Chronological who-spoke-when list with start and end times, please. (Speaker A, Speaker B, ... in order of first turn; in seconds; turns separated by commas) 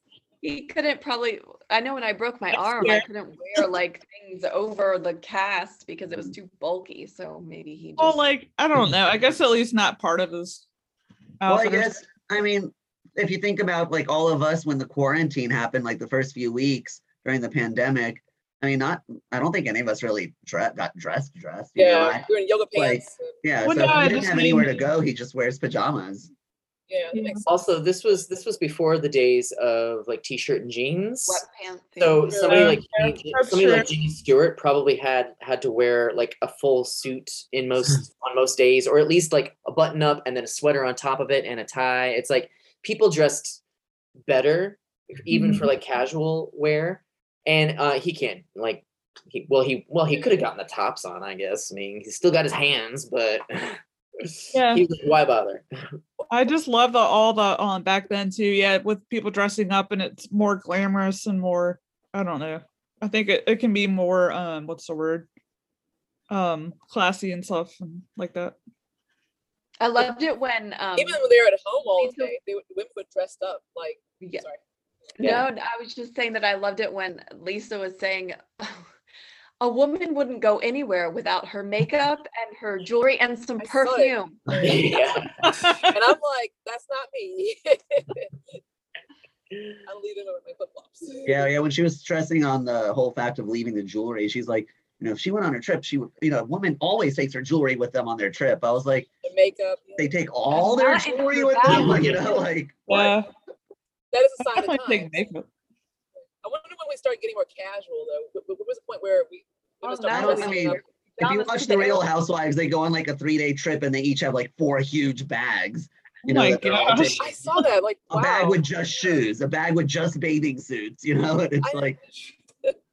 Speaker A: 0.4-8.2, Speaker B: 2.5-3.1, Speaker B: 8.0-10.6, Speaker B: 11.4-11.9, Speaker C: 11.5-26.3, Speaker D: 21.8-23.4, Speaker B: 23.6-24.9, Speaker D: 26.9-27.5, Speaker B: 27.1-27.4, Speaker E: 27.5-31.4, Speaker A: 31.3-32.4, Speaker E: 32.0-43.6, Speaker D: 32.3-32.8, Speaker B: 32.5-33.9, Speaker E: 44.3-55.9, Speaker B: 45.3-45.7, Speaker B: 54.5-54.8, Speaker B: 56.3-65.3, Speaker B: 66.3-68.6, Speaker A: 69.8-71.2, Speaker D: 71.0-74.6, Speaker A: 71.9-72.3, Speaker A: 75.2-78.8, Speaker A: 79.6-84.4, Speaker D: 83.6-84.8, Speaker E: 84.6-85.5, Speaker B: 85.4-86.0, Speaker D: 85.9-88.6, Speaker E: 89.5-89.8, Speaker D: 89.9-91.3, Speaker C: 91.2-99.1, Speaker D: 99.2-100.1, Speaker C: 100.0-103.2, Speaker A: 100.6-102.4, Speaker B: 101.7-102.2, Speaker B: 102.9-103.3, Speaker D: 104.1-105.1, Speaker B: 104.5-105.5, Speaker D: 106.4-110.8, Speaker A: 109.8-112.1, Speaker C: 110.1-117.4, Speaker B: 116.2-117.2, Speaker D: 117.2-118.6, Speaker C: 118.1-122.0, Speaker D: 121.6-122.8